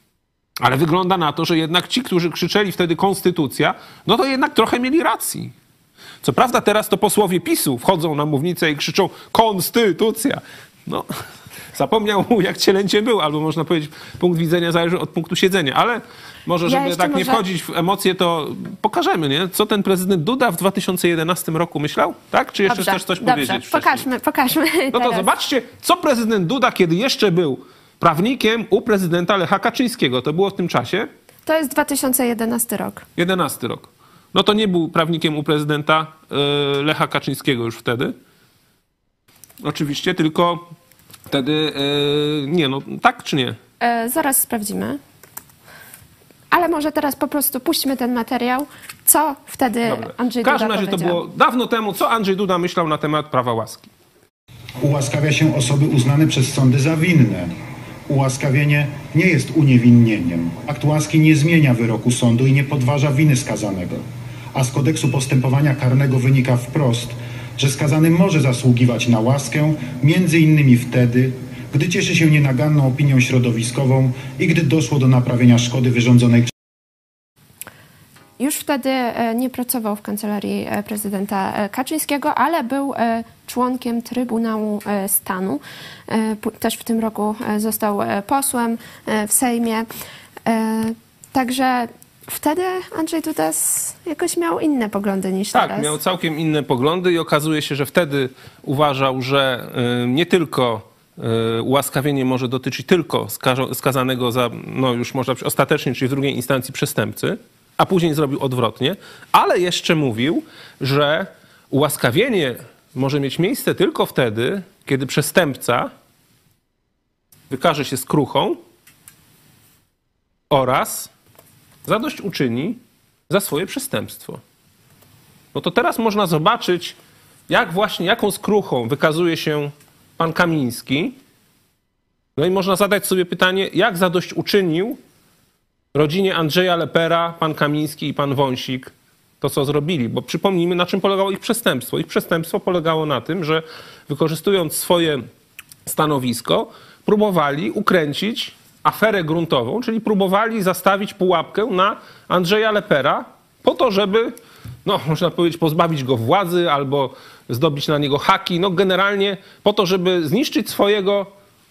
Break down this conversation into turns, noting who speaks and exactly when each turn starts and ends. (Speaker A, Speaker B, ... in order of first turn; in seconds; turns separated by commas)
Speaker A: 0.6-5.5, Speaker A: 6.2-11.1, Speaker A: 11.7-24.1, Speaker B: 16.6-17.4, Speaker B: 22.6-25.3, Speaker A: 24.9-31.1, Speaker B: 31.4-33.0, Speaker A: 33.1-38.1, Speaker A: 39.6-40.7, Speaker A: 41.3-43.6, Speaker B: 43.8-45.0, Speaker B: 46.5-51.2, Speaker A: 49.9-53.9, Speaker C: 54.8-57.5, Speaker C: 58.1-64.0, Speaker C: 64.5-76.5, Speaker B: 78.4-89.9, Speaker B: 90.5-95.9, Speaker A: 95.5-115.9, Speaker A: 117.5-118.6, Speaker A: 120.5-121.1, Speaker A: 121.8-124.4, Speaker A: 125.5-127.0, Speaker A: 127.5-131.2, Speaker A: 132.3-135.0, Speaker A: 135.9-145.2, Speaker A: 145.8-161.3